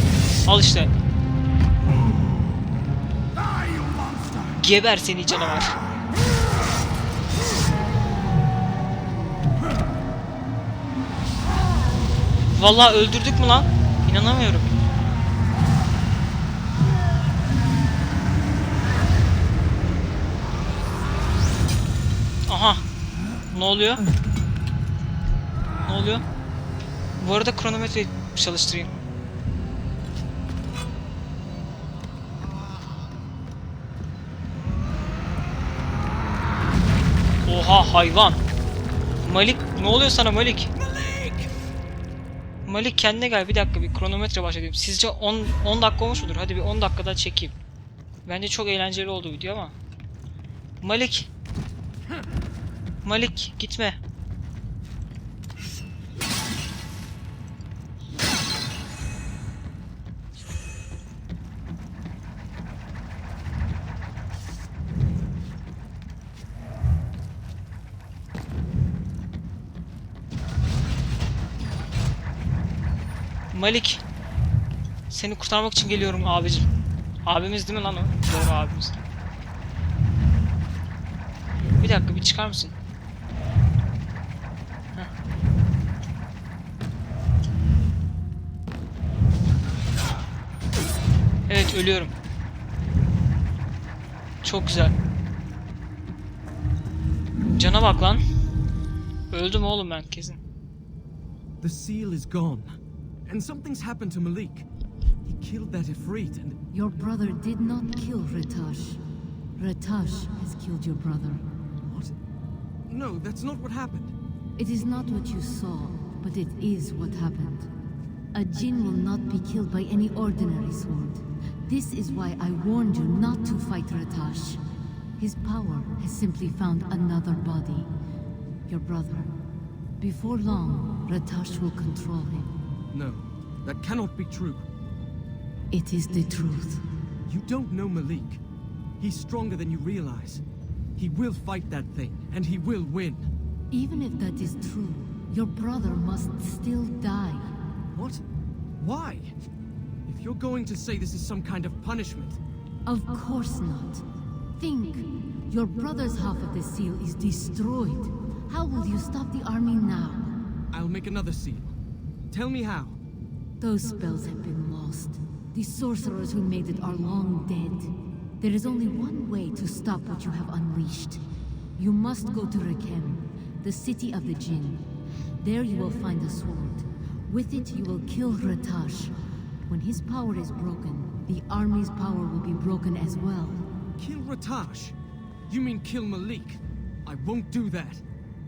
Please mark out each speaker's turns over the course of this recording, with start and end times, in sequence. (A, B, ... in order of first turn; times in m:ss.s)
0:00.4-0:00.9 A
0:04.5-0:05.8 A
0:12.5-0:14.7 A
0:22.5-0:22.8 A
0:23.5-0:24.0 A
0:25.8-0:26.2 A
0:27.2-0:28.9 A
0:37.4-0:38.4 A
0:39.2-0:40.7 A
0:42.6-0:47.5 A
0:48.2-0:49.7 A
0:50.8-0:51.3 A
0:53.0-0:54.0 A
1:13.5-1:14.0 A
1:15.1-1:16.7 A
1:17.2-1:19.0 A
1:21.8-1:22.7 A
1:31.5-1:32.1 A
1:34.4-1:34.9 A
1:37.4-1:38.2 A
1:39.3-1:40.4 A
1:41.6-1:42.8 B
1:43.3-1:44.6 B
1:45.2-1:46.6 B
1:46.7-1:49.0 C
1:49.6-1:51.5 C
1:51.9-1:52.1 B
1:52.9-1:54.1 B
1:54.6-1:57.7 C
1:58.3-2:04.6 C
2:05.2-2:07.9 C
2:08.7-2:09.3 C
2:10.0-2:12.5 C
2:12.9-2:14.6 B
2:15.7-2:16.8 C
2:17.3-2:18.4 B
2:19.0-2:20.4 B
2:21.0-2:23.3 B
2:23.7-2:27.6 C
2:27.9-2:28.2 B
2:28.8-2:29.3 B
2:30.0-2:32.4 B
2:32.8-2:34.0 C
2:34.6-2:40.4 C
2:40.7-2:41.7 B
2:42.3-2:43.0 B
2:43.6-2:51.2 C
2:51.8-2:54.9 C
2:55.4-3:03.7 C
3:04.0-3:04.9 B
3:05.5-3:08.0 B